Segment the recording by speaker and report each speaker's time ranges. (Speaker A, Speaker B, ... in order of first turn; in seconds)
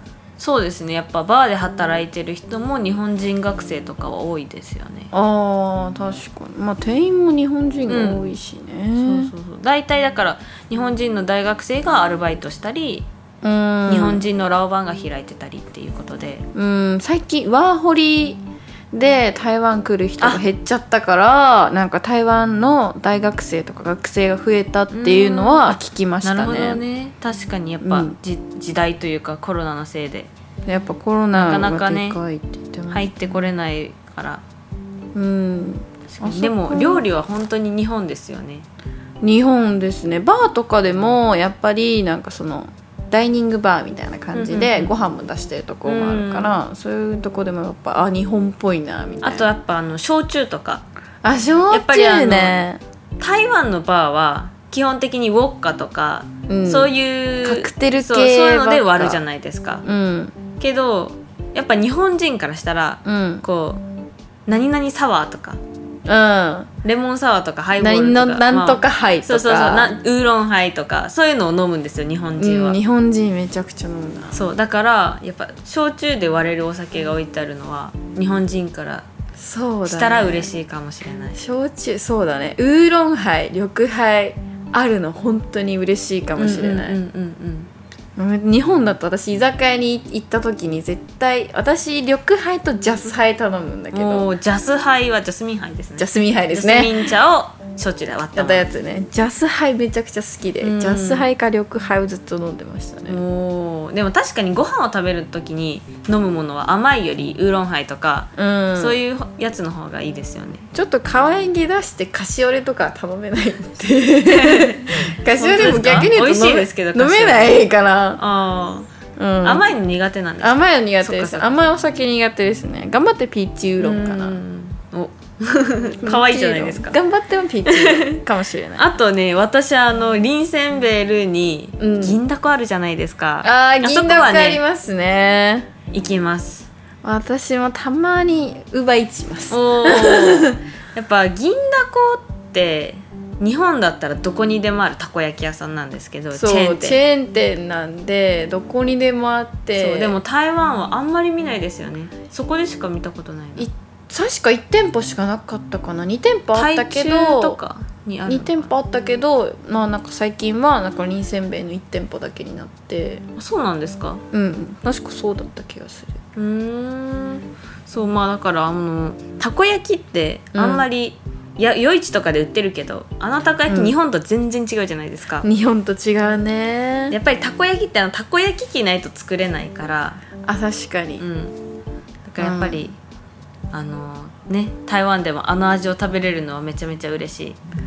Speaker A: 0.4-5.1, 7.9-8.3, 8.9-13.1, 13.9-16.5, 24.9-30.3, 31.3-32.2, 32.9-34.4, 36.1-38.6, 44.3-44.9, 45.8-46.6, 49.2-50.9, 51.7-52.6, 53.2-59.9, 60.6-63.8, 64.5-65.6, 66.8-72.8, 74.3-79.0, 79.8-81.4, 86.4-87.7, 93.9-98.7, 100.6-101.3, 103.1-110.7, 114.2-117.6, 118.2-118.9, 119.4-121.6, 123.8-127.0, 127.7-128.2, 128.7-134.6, 135.9-136.7, 139.5-147.0, 149.7-153.7, 156.5-158.7, 163.3-164.2, 166.3-175.5, 177.1-180.2, 181.2-181.6, 182.2-183.0, 183.7-187.6
Speaker B: 5.1-9.3, 13.4-14.2, 16.5-18.4, 18.9-26.8, 27.8-28.1, 30.6-33.4, 35.1-37.1, 39.2-49.5, 51.2-52.8, 56.5-59.2, 59.8-60.4, 63.0-63.4, 66.0-66.7, 67.8-69.9, 72.4-74.4, 79.4-80.5, 81.3-87.0, 88.2-94.3, 96.0-97.1, 98.3-103.2, 108.3-109.0, 110.7-118.2, 119.2-119.7, 120.4-124.4, 126.0-128.9, 131.8-132.2, 133.4-135.7, 137.0-140.6, 146.3-150.2, 153.6-157.6, 158.2-163.2, 164.3-166.2, 170.5-170.9, 173.7-173.9, 175.4-177.2, 180.4-181.2, 182.4-182.8